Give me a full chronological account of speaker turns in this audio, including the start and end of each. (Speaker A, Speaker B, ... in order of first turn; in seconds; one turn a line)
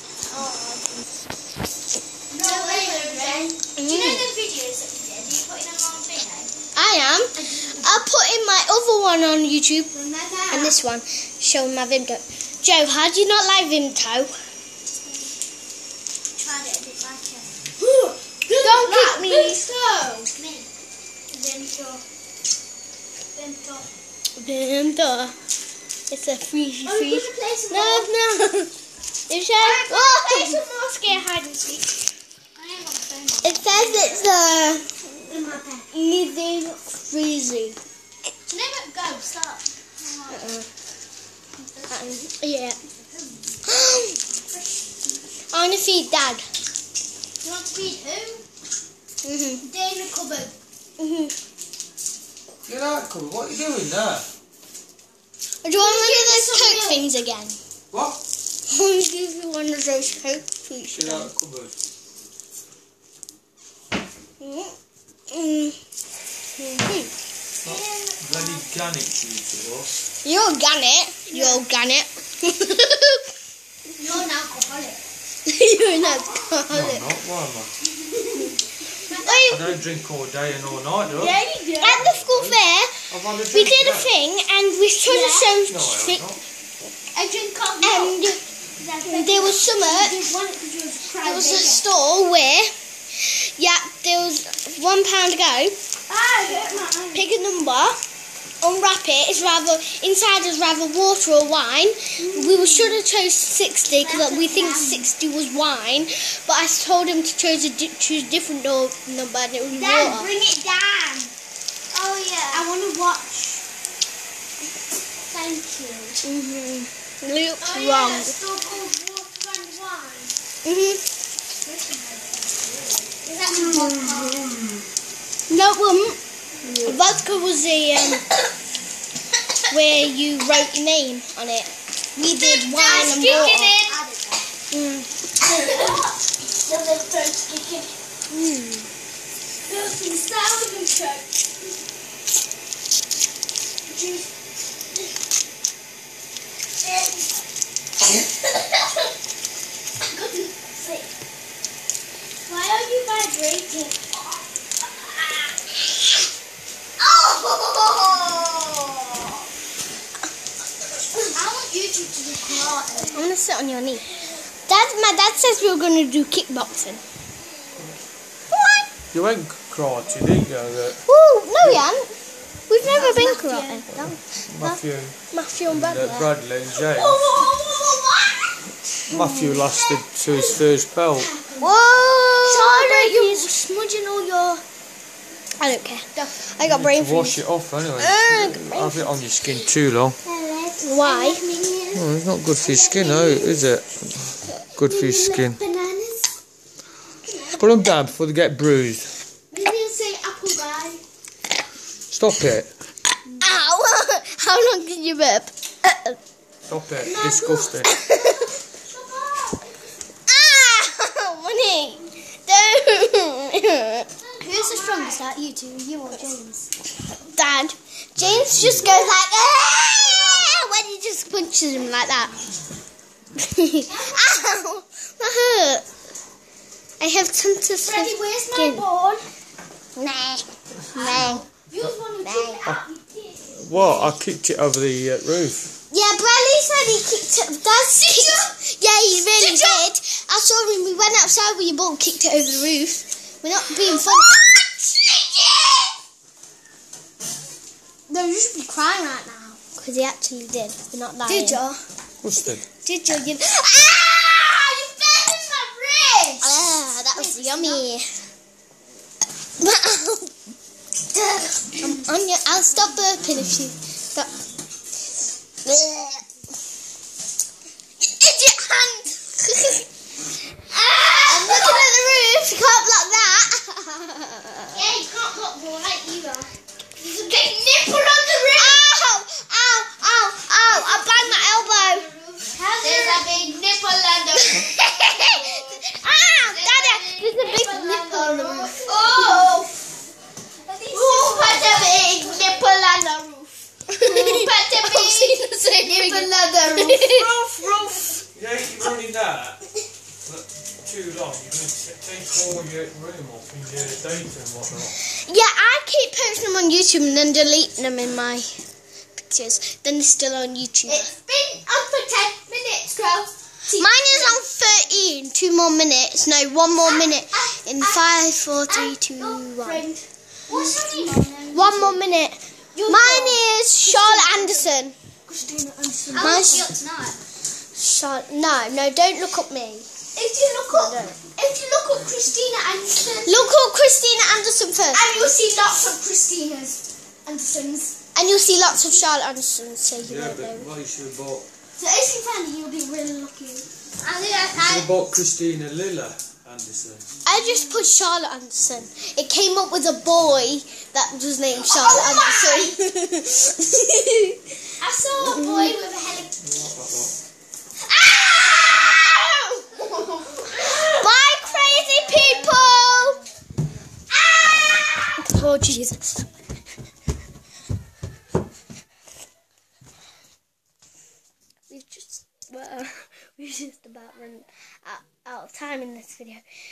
Speaker A: 0.3-0.8
Speaker A: 2.3-6.5
Speaker B: 2.4-4.3
Speaker B: 6.8-9.9
Speaker A: 7.3-8.0
Speaker A: 9.9-10.7
Speaker B: 10.5-14.3
Speaker A: 16.4-20.7
Speaker B: 18.6-19.6
Speaker A: 21.3-22.0
Speaker A: 23.4-23.9
Speaker B: 24.4-25.4
Speaker B: 26.1-28.7
Speaker A: 26.9-28.1
Speaker B: 29.3-30.6
Speaker A: 29.6-31.9
Speaker A: 32.6-34.4
Speaker B: 33.4-35.0
Speaker A: 35.3-35.9
Speaker B: 35.9-37.8
Speaker A: 38.5-40.4
Speaker B: 40.3-40.7
Speaker A: 41.6-42.2
Speaker B: 41.9-42.8
Speaker B: 43.7-44.2
Speaker B: 45.5-46.5
Speaker A: 47.4-48.4
Speaker B: 49.2-49.6
Speaker A: 49.6-50.5
Speaker B: 51.0-51.4
Speaker C: 52.7-54.3
Speaker B: 55.6-57.6
Speaker A: 55.7-57.1
Speaker C: 57.9-58.2
Speaker B: 58.7-61.3
Speaker C: 60.9-61.7
Speaker B: 64.4-64.8
Speaker B: 65.3-65.8
Speaker B: 66.6-67.1
Speaker C: 67.6-69.9
Speaker A: 67.6-68.9
Speaker B: 70.2-73.2
Speaker A: 71.3-71.6
Speaker A: 74.0-75.0
Speaker B: 75.5-77.1
Speaker C: 76.7-77.7
Speaker A: 78.0-79.7
Speaker B: 79.2-79.7
Speaker C: 79.5-81.4
Speaker A: 81.1-82.0
Speaker B: 81.8-86.3
Speaker C: 81.9-82.5
Speaker C: 83.1-84.1
Speaker A: 85.1-85.6
Speaker C: 85.7-86.4
Speaker A: 87.1-91.8
Speaker B: 87.8-88.4
Speaker B: 89.1-90.2
Speaker B: 91.2-95.8
Speaker A: 96.1-97.2
Speaker B: 97.1-98.0
Speaker B: 98.6-110.3
Speaker A: 102.2-103.0
Speaker A: 103.9-105.1
Speaker A: 109.8-111.3
Speaker A: 111.9-113.6
Speaker A: 115.3-116.2
Speaker B: 116.2-118.4
Speaker A: 117.6-120.3
Speaker B: 120.6-121.0
Speaker A: 121.6-124.6
Speaker B: 123.5-124.5
Speaker B: 125.5-126.2
Speaker B: 126.8-128.2
Speaker B: 129.7-133.8
Speaker A: 132.2-134.5
Speaker B: 134.7-135.1
Speaker A: 135.4-137.9
Speaker B: 138.3-138.9
Speaker A: 139.7-141.2
Speaker A: 143.9-144.3
Speaker A: 146.8-147.2
Speaker A: 150.1-151.1
Speaker A: 152.5-154.2
Speaker A: 157.0-159.3
Speaker A: 161.3-163.2
Speaker B: 163.1-164.1
Speaker B: 164.6-167.0
Speaker B: 168.5-168.8
Speaker C: 169.1-171.0
Speaker B: 171.1-176.3
Speaker A: 172.9-174.2
Speaker C: 174.4-177.4
Speaker A: 176.8-178.6
Speaker C: 179.1-181.3
Speaker B: 179.1-179.6
Speaker A: 179.7-180.6
Speaker A: 181.2-181.7
Speaker B: 181.6-183.5
Speaker A: 182.4-184.6
Speaker B: 185.6-187.4
Speaker C: 186.6-190.2
Speaker B: 188.0-189.1
Speaker A: 190.2-192.1
Speaker B: 190.8-191.4
Speaker C: 191.9-195.6
Speaker A: 192.6-193.6
Speaker A: 194.8-196.3
Speaker A: 197.2-197.6
Speaker C: 197.5-199.2
Speaker A: 199.5-201.0
Speaker C: 202.1-202.8
Speaker B: 203.4-206.2
Speaker C: 206.7-207.9
Speaker A: 207.0-209.7
Speaker B: 207.8-208.3
Speaker B: 210.3-215.2
Speaker A: 214.2-216.7
Speaker B: 217.3-222.3
Speaker C: 218.2-218.9
Speaker A: 218.5-219.1
Speaker B: 223.4-225.9
Speaker A: 223.9-224.2
Speaker B: 227.0-228.9
Speaker A: 227.8-229.3
Speaker B: 230.0-231.4
Speaker A: 230.9-234.1
Speaker B: 232.2-232.6
Speaker C: 233.5-235.7
Speaker B: 235.9-244.6
Speaker A: 237.8-238.5
Speaker A: 239.4-239.8
Speaker A: 245.3-245.9
Speaker A: 248.1-249.6
Speaker B: 249.7-251.6
Speaker A: 251.3-251.8
Speaker C: 252.2-252.7
Speaker B: 252.8-253.6
Speaker A: 253.5-256.5
Speaker B: 256.4-258.1
Speaker A: 257.1-257.8
Speaker B: 259.6-260.3
Speaker B: 261.8-264.3
Speaker B: 265.6-266.2
Speaker B: 268.0-269.9
Speaker A: 270.7-271.9
Speaker B: 271.3-274.8
Speaker A: 274.7-278.8
Speaker B: 278.6-282.1
Speaker A: 280.6-284.7
Speaker B: 282.8-283.3
Speaker B: 284.5-289.5
Speaker A: 286.4-289.8
Speaker A: 290.6-298.2
Speaker B: 290.9-292.6
Speaker B: 293.9-297.3
Speaker C: 298.3-299.6
Speaker C: 300.2-304.9
Speaker B: 305.1-308.6
Speaker B: 309.2-311.1
Speaker A: 310.9-314.4
Speaker B: 313.7-319.8
Speaker A: 316.8-324.7
Speaker B: 320.5-325.0
Speaker A: 325.3-327.2
Speaker B: 326.1-326.7
Speaker B: 327.8-329.9
Speaker A: 330.1-333.5
Speaker B: 330.7-331.2
Speaker B: 333.2-335.0
Speaker A: 334.9-338.0
Speaker B: 338.1-340.7
Speaker C: 340.0-341.4
Speaker A: 341.8-344.9
Speaker C: 344.6-347.1
Speaker B: 347.2-354.4
Speaker A: 347.3-347.8
Speaker A: 351.6-352.8
Speaker A: 354.8-356.3
Speaker B: 355.2-355.8
Speaker C: 356.4-357.2
Speaker A: 358.0-361.0
Speaker B: 360.6-363.2
Speaker A: 361.8-362.6
Speaker A: 364.1-365.2
Speaker B: 365.2-366.3
Speaker B: 371.7-376.4